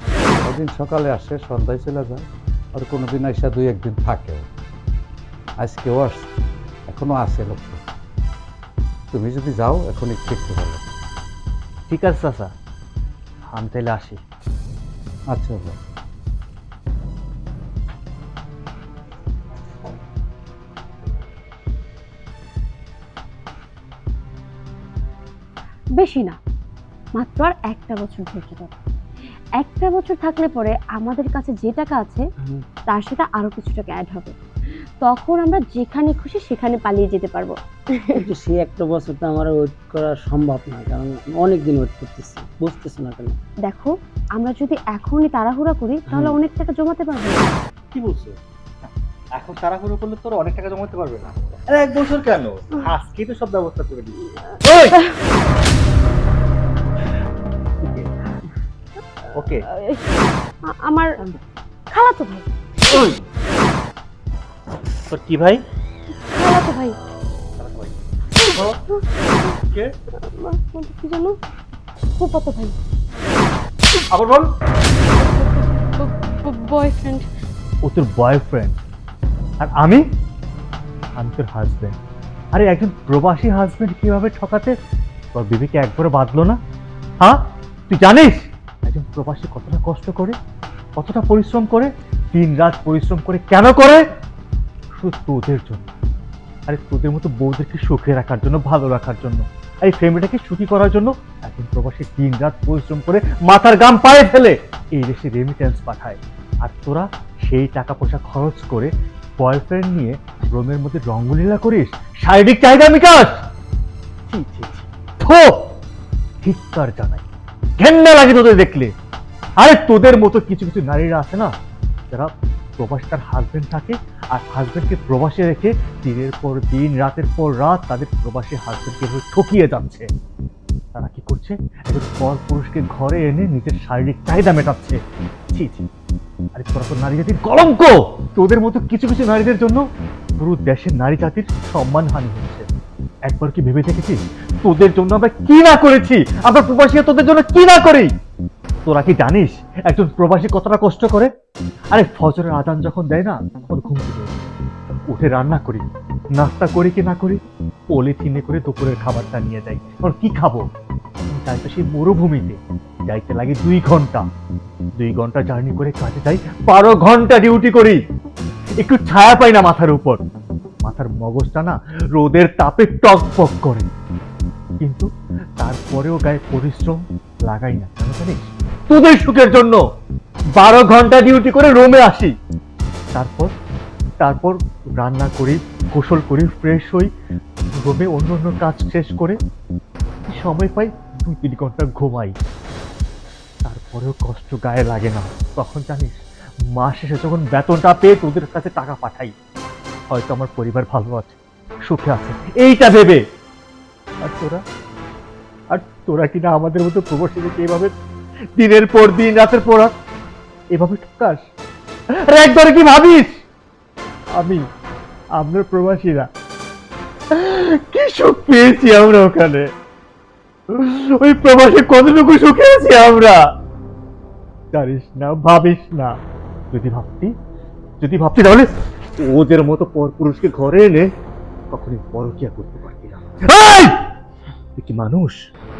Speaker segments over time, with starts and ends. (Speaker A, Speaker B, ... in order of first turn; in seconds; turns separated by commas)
Speaker A: 0.3-4.5, Speaker A: 5.6-6.3, Speaker A: 6.9-7.8, Speaker A: 9.1-10.8, Speaker B: 11.9-12.5, Speaker B: 13.5-14.2, Speaker A: 15.3-15.8, Speaker C: 26.0-26.4, Speaker C: 27.1-28.7, Speaker C: 29.6-32.2, Speaker C: 32.9-34.4, Speaker C: 35.0-38.3, Speaker D: 38.2-43.4, Speaker C: 43.6-47.5, Speaker B: 47.9-54.9, Speaker C: 54.8-55.1, Speaker B: 57.8-58.1, Speaker B: 59.4-59.6, Speaker C: 59.7-60.0, Speaker C: 60.7-61.1, Speaker C: 61.9-63.0, Speaker B: 62.9-63.2, Speaker B: 65.1-65.6, Speaker C: 66.2-67.0, Speaker B: 67.6-67.9, Speaker C: 68.4-69.5, Speaker B: 68.5-68.8, Speaker B: 69.5-69.9, Speaker C: 70.2-71.3, Speaker C: 72.2-72.7, Speaker B: 74.1-74.5, Speaker C: 75.0-77.2, Speaker B: 77.8-78.8, Speaker B: 79.6-80.0, Speaker B: 81.2-81.9, Speaker B: 82.5-84.7, Speaker B: 85.3-86.6, Speaker B: 87.2-90.3, Speaker B: 91.0-94.0, Speaker B: 95.0-95.8, Speaker B: 96.7-113.4, Speaker B: 114.3-115.7, Speaker B: 116.4-117.2, Speaker B: 117.8-118.9, Speaker B: 119.6-121.5, Speaker B: 122.1-130.1, Speaker B: 130.9-135.0, Speaker B: 135.5-135.9, Speaker B: 136.5-139.8, Speaker B: 140.4-142.7, Speaker B: 143.3-148.1, Speaker B: 148.8-151.3, Speaker B: 151.9-154.5, Speaker B: 155.1-160.7, Speaker B: 161.3-164.2, Speaker B: 165.0-168.0, Speaker B: 168.8-170.2, Speaker B: 170.8-173.9, Speaker B: 174.8-175.1, Speaker B: 175.6-179.8, Speaker B: 180.6-182.3, Speaker B: 183.1-183.5, Speaker B: 184.2-187.1, Speaker B: 187.7-189.4, Speaker B: 190.3-192.3, Speaker B: 193.6-196.2, Speaker B: 196.8-199.3, Speaker B: 200.1-203.2, Speaker B: 204.2-204.6, Speaker B: 205.7-207.9, Speaker B: 208.6-209.9, Speaker B: 210.7-211.4, Speaker B: 212.3-213.4, Speaker B: 214.3-214.6, Speaker B: 215.3-216.3, Speaker B: 217.3-219.7, Speaker B: 220.7-223.5, Speaker B: 224.7-226.2, Speaker B: 226.7-227.3, Speaker B: 228.0-228.7, Speaker B: 229.2-231.1, Speaker B: 231.7-234.1, Speaker B: 234.8-235.4